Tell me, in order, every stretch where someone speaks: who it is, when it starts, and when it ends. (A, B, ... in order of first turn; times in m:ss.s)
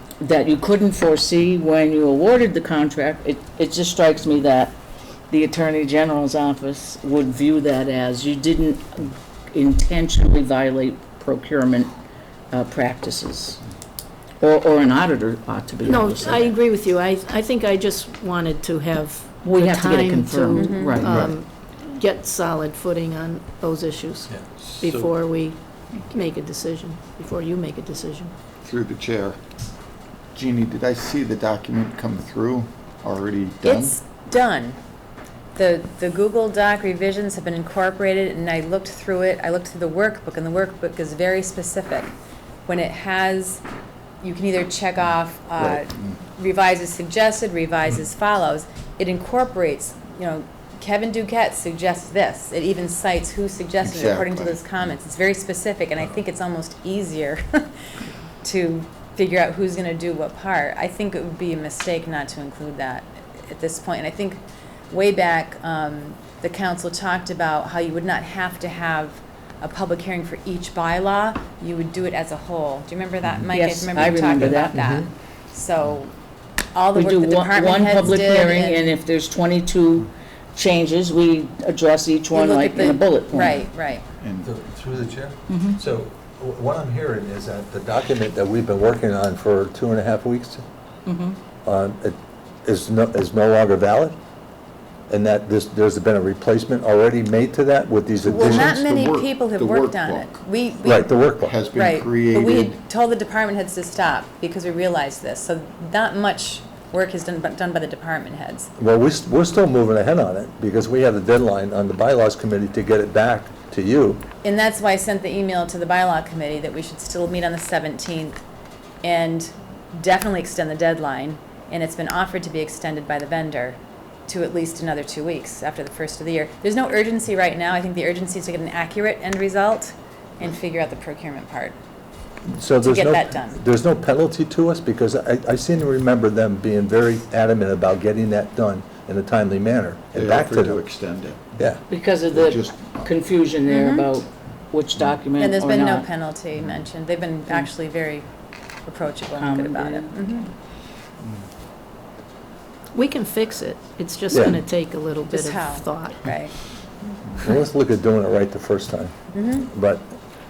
0:00.2-0:04.7 A
0:05.3-0:11.9 A
0:12.5-0:13.6 A
0:14.4-0:16.6 A
0:15.8-0:28.3 B
0:19.4-0:21.3 A
0:20.6-0:21.1 C
0:21.0-0:21.3 D
0:24.5-0:25.1 D
0:28.6-0:29.4 D
0:30.3-0:34.0 D
0:33.6-0:34.8 C
0:35.6-0:42.1 C
0:42.7-0:43.6 C
0:44.2-0:57.6 C
0:45.8-0:46.0 D
0:53.8-0:54.6 D
0:58.4-1:04.4 C
1:04.9-1:16.1 C
1:13.5-1:15.0 A
1:16.7-1:18.8 C
1:16.9-1:23.6 A
1:22.3-1:24.0 C
1:24.2-1:24.5 D
1:24.4-1:30.6 E
1:25.5-1:25.8 A
1:31.0-1:31.4 A
1:31.6-1:34.2 E
1:35.1-1:38.8 E
1:38.2-1:40.4 D
1:38.2-1:48.7 C
1:40.8-1:41.6 E
1:41.4-1:42.8 D
1:48.8-1:54.2 E
1:54.4-1:58.4 C
1:59.0-2:11.8 C
2:12.4-2:20.8 E
2:12.8-2:13.6 C
2:20.1-2:21.5 D
2:21.6-2:21.8 E
2:21.9-2:26.1 A
2:22.3-2:23.1 D
2:23.7-2:24.1 C
2:25.4-2:28.2 C
2:28.8-2:30.5 C
2:29.4-2:30.1 A
2:32.9-2:36.3 B
2:34.3-2:34.6 E
2:35.3-2:36.5 C
2:37.4-2:40.1 E
2:39.3-2:39.7 C